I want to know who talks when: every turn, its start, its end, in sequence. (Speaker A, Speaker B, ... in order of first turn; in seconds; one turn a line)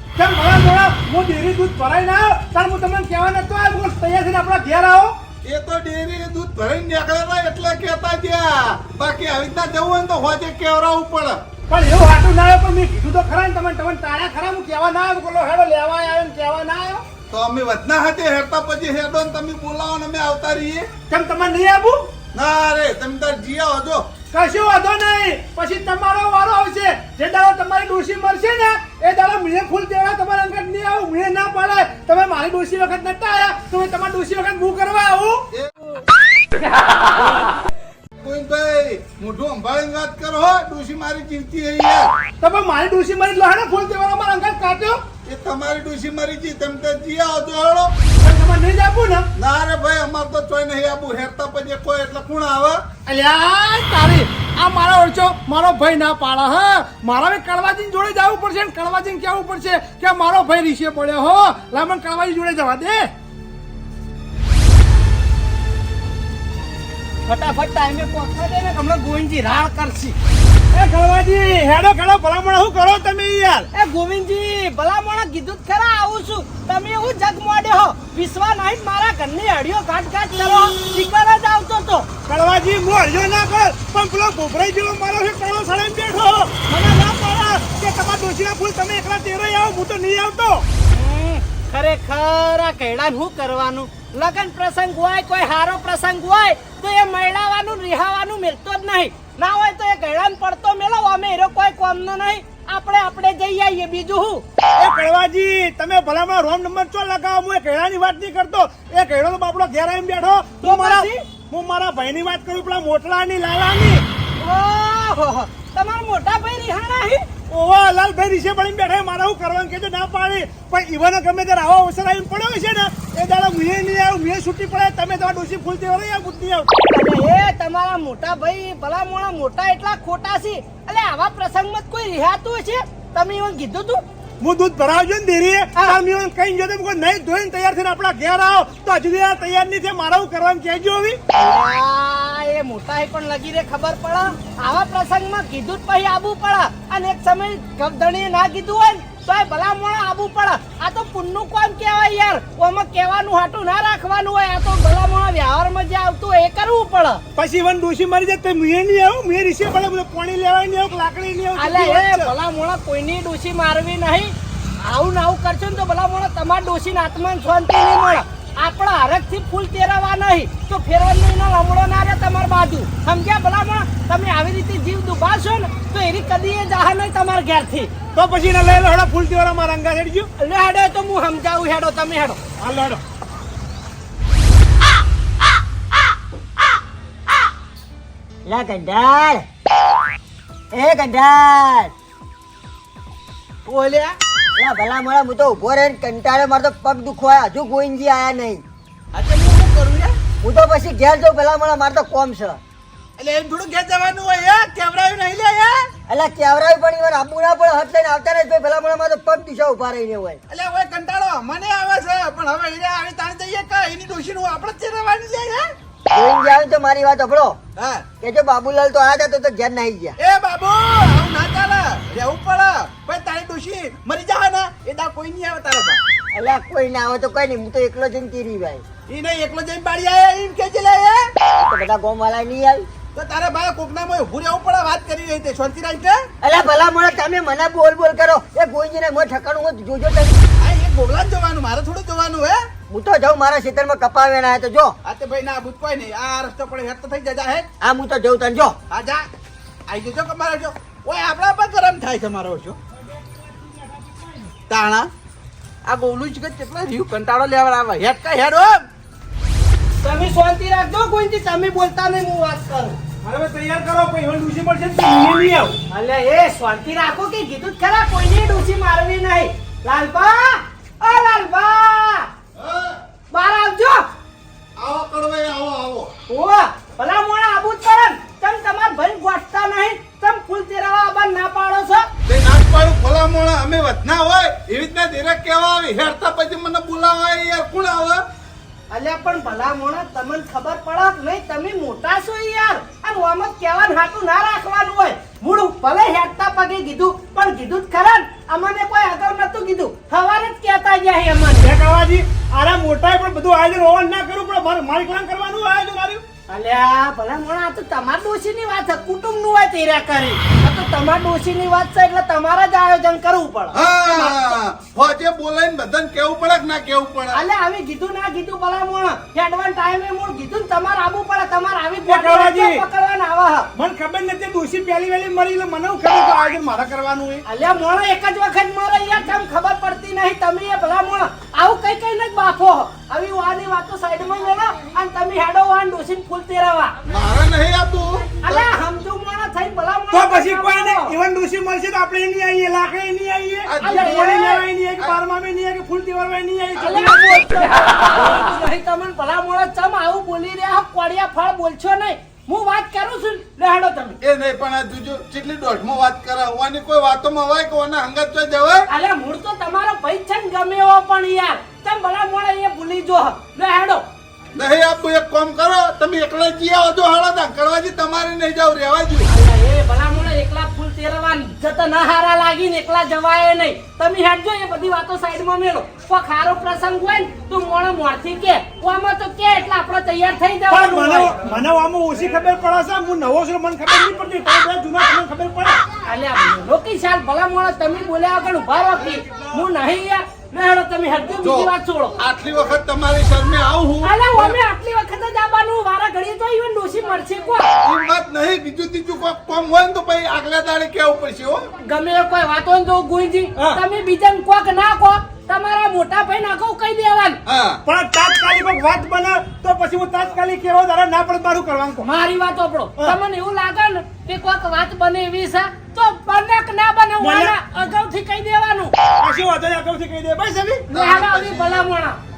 Speaker A: 0.2-5.1
Speaker B: 5.4-11.4
Speaker A: 11.7-17.0
Speaker B: 17.3-20.9
Speaker A: 21.1-22.1
Speaker B: 22.3-24.1
Speaker A: 24.3-35.5
Speaker B: 38.2-42.1
Speaker A: 42.4-45.0
Speaker B: 45.2-47.9
Speaker A: 48.2-49.3
Speaker B: 49.4-52.8
Speaker A: 53.1-63.1
Speaker C: 67.2-70.2
Speaker A: 70.7-73.7
Speaker C: 73.7-82.1
Speaker A: 80.6-80.9
Speaker A: 82.3-90.6
Speaker C: 86.7-87.0
Speaker C: 90.9-104.4
Speaker A: 104.8-114.0
Speaker C: 110.6-111.2
Speaker C: 114.4-117.3
Speaker A: 117.5-126.8
Speaker C: 126.9-134.0
Speaker A: 134.4-141.2
Speaker C: 141.3-157.2
Speaker A: 157.3-162.3
Speaker C: 161.6-177.9
Speaker A: 178.1-180.3
Speaker C: 180.4-182.4
Speaker A: 182.6-183.0
Speaker D: 188.4-189.4
Speaker D: 190.7-191.9
Speaker E: 193.7-194.2
Speaker D: 194.6-198.6
Speaker E: 199.1-200.2
Speaker D: 200.4-202.6
Speaker E: 203.2-205.9
Speaker D: 206.1-210.4
Speaker E: 210.5-215.7
Speaker D: 216.1-217.6
Speaker E: 217.8-218.0
Speaker D: 218.2-220.2
Speaker E: 220.2-226.0
Speaker D: 226.3-228.8
Speaker E: 229.1-231.3
Speaker D: 231.5-232.9
Speaker E: 233.1-236.2
Speaker D: 236.4-240.4
Speaker E: 240.6-242.7
Speaker D: 242.9-244.9
Speaker E: 245.0-247.7
Speaker D: 247.8-248.8
Speaker E: 248.9-249.3
Speaker E: 249.9-252.8
Speaker A: 252.9-254.5
Speaker E: 254.7-255.1
Speaker E: 255.8-258.9
Speaker C: 260.0-263.0
Speaker A: 263.2-265.7
Speaker C: 265.9-272.3
Speaker B: 272.6-273.0
Speaker C: 273.3-274.0
Speaker B: 274.8-276.1
Speaker C: 276.3-282.1
Speaker B: 282.3-288.2
Speaker C: 288.9-301.7
Speaker A: 301.6-306.2
Speaker C: 306.5-314.6
Speaker B: 313.7-317.4
Speaker C: 317.3-323.7
Speaker A: 322.1-322.8
Speaker A: 323.8-327.4
Speaker C: 327.4-336.9
Speaker B: 337.1-338.7
Speaker C: 338.4-341.1
Speaker A: 340.1-347.6
Speaker B: 343.7-344.5
Speaker C: 343.8-344.6
Speaker C: 346.8-354.2
Speaker B: 354.2-358.9
Speaker C: 358.9-364.0
Speaker B: 364.5-369.3
Speaker C: 369.3-381.3
Speaker A: 380.7-385.8
Speaker C: 386.1-392.2
Speaker B: 391.4-394.1
Speaker C: 394.0-397.7
Speaker B: 397.8-401.7
Speaker C: 401.8-407.4
Speaker B: 407.5-407.8
Speaker A: 407.9-412.1
Speaker C: 412.0-418.9
Speaker A: 417.2-417.6
Speaker A: 419.2-420.9
Speaker B: 420.9-421.9
Speaker C: 420.9-422.2